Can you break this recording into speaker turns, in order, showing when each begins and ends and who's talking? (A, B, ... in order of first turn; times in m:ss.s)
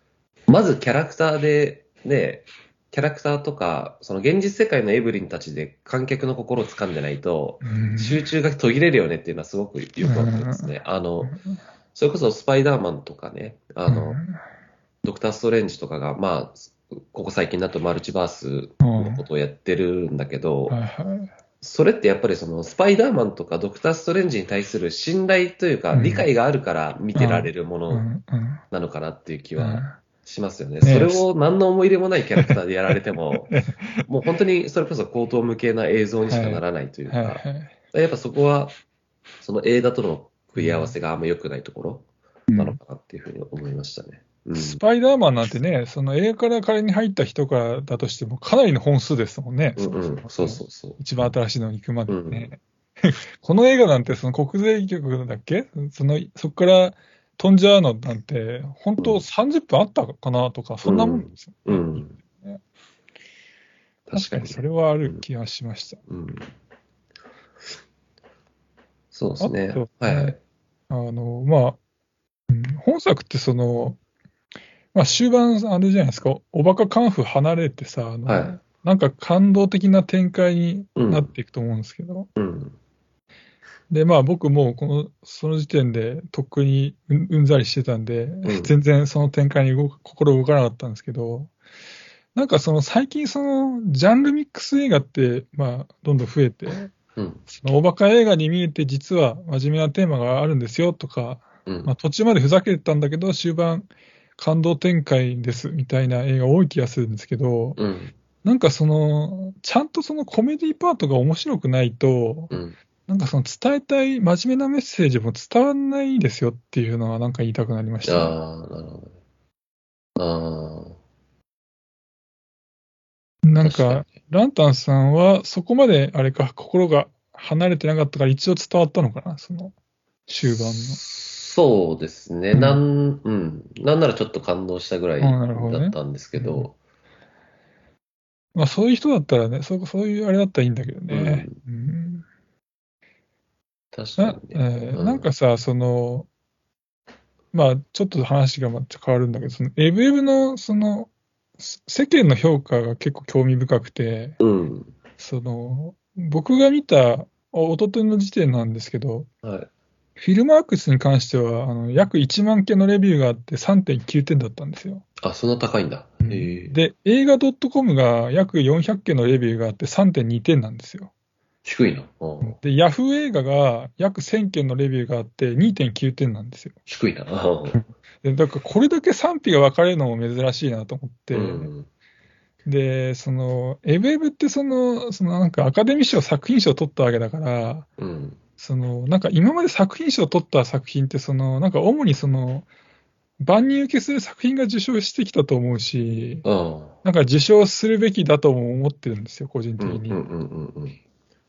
0:00.5-0:11.4 A
0:07.6-0:08.2 B
0:10.0-0:11.6 B
0:11.9-0:14.2 A
0:13.9-0:14.4 B
0:15.0-0:20.8 A
0:18.8-0:19.2 B
0:20.7-0:21.3 B
0:21.6-0:28.1 A
0:25.9-0:26.3 B
0:27.1-0:28.6 B
0:28.7-0:38.8 A
0:29.6-0:30.0 B
0:30.8-0:31.2 B
0:33.5-0:34.0 B
0:36.3-0:37.8 B
0:39.4-0:44.8 A
0:40.6-0:40.9 B
0:42.5-0:42.8 B
0:44.6-1:02.6 B
0:49.8-0:51.0 A
0:52.1-0:52.5 A
0:59.0-0:59.2 A
1:00.8-1:02.1 A
1:04.1-1:05.2 A
1:04.1-1:06.0 B
1:06.1-1:06.5 A
1:09.1-1:10.4 A
1:09.4-1:10.3 B
1:10.9-1:11.8 B
1:12.5-1:14.0 B
1:14.9-1:22.3 B
1:18.3-1:18.6 A
1:21.0-1:21.3 A
1:22.4-1:22.8 A
1:23.9-1:31.5 B
1:28.4-1:28.7 A
1:32.3-1:36.9 B
1:37.2-1:37.4 A
1:37.5-1:47.8 B
1:41.6-1:41.9 A
1:47.8-1:48.1 A
1:48.4-1:58.3 B
1:52.5-1:52.8 A
1:58.0-1:59.2 A
2:00.2-2:01.0 A
2:03.4-2:09.7 B
2:03.6-2:04.1 A
2:10.3-2:11.0 B
2:10.4-2:16.8 A
2:12.5-2:12.8 B
2:15.2-2:16.7 B
2:18.5-2:22.2 B
2:21.1-2:21.6 A
2:23.9-2:25.3 A
2:24.2-2:26.3 B
2:27.5-2:34.4 B
2:34.4-2:34.9 A
2:35.2-2:39.3 B
2:39.4-2:39.7 A
2:40.2-2:45.0 B
2:45.2-2:46.8 A
2:46.2-2:51.1 B
2:51.6-2:52.6 A
2:52.4-2:56.8 B
2:56.9-2:57.8 A
2:57.7-3:01.7 B
3:01.3-3:01.9 A
3:02.6-3:07.9 B
3:08.0-3:08.4 A
3:08.6-3:12.6 B
3:13.4-3:16.4 B
3:16.4-3:17.0 A
3:17.0-3:20.2 B
3:19.8-3:21.0 A